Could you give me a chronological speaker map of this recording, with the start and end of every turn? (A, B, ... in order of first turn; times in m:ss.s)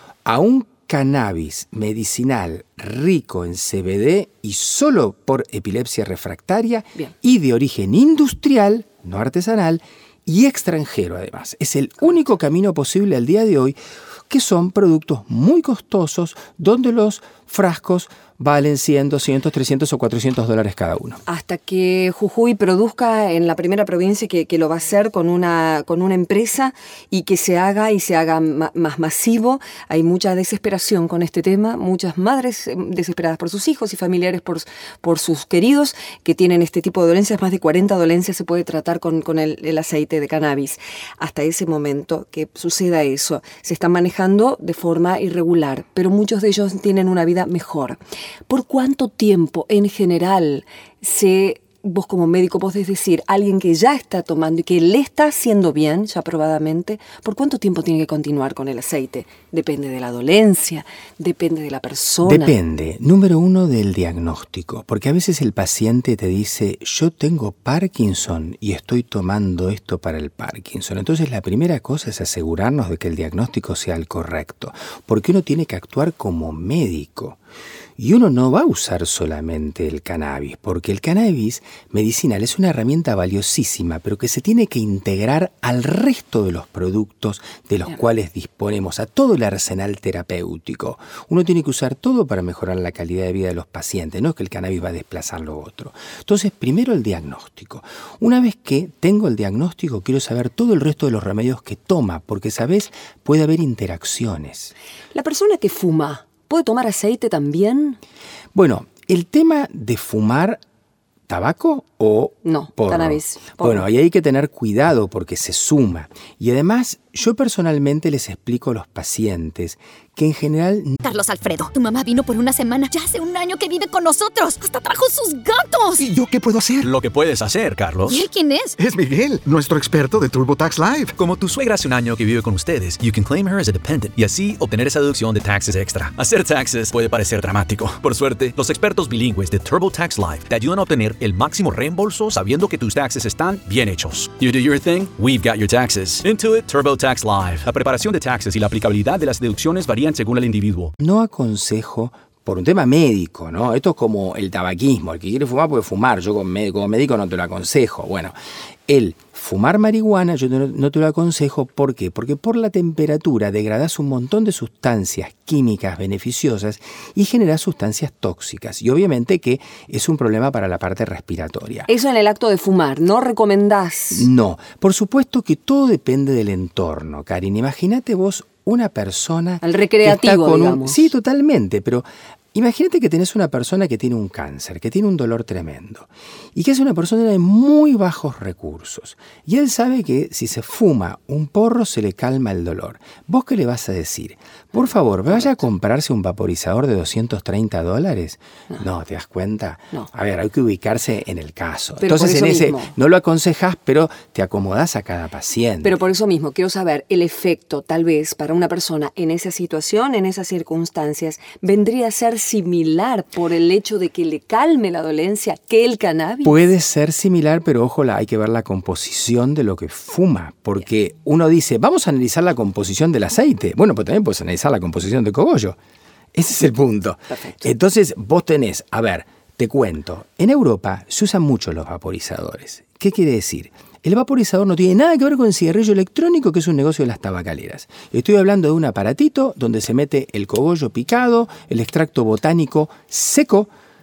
0:00.2-0:21.2 A
0:21.2-1:02.6 B
1:02.2-1:17.4 A
1:18.0-1:44.7 A
1:45.1-1:48.0 B
1:48.5-1:50.6 A
1:51.3-2:01.0 A
1:52.4-1:53.8 B
2:01.0-2:06.1 C
2:06.0-2:06.9 D
2:06.8-2:08.2 E
2:08.1-2:08.8 C
2:08.8-2:11.2 D
2:11.2-2:30.9 E
2:31.0-2:38.4 A
2:38.9-2:51.9 A
2:51.9-2:54.3 B
2:54.1-3:26.0 A
2:59.6-3:01.1 B
3:22.0-3:22.9 B
3:25.8-3:36.6 B
3:36.4-3:45.8 A
3:46.3-4:03.7 A
3:47.3-3:47.7 B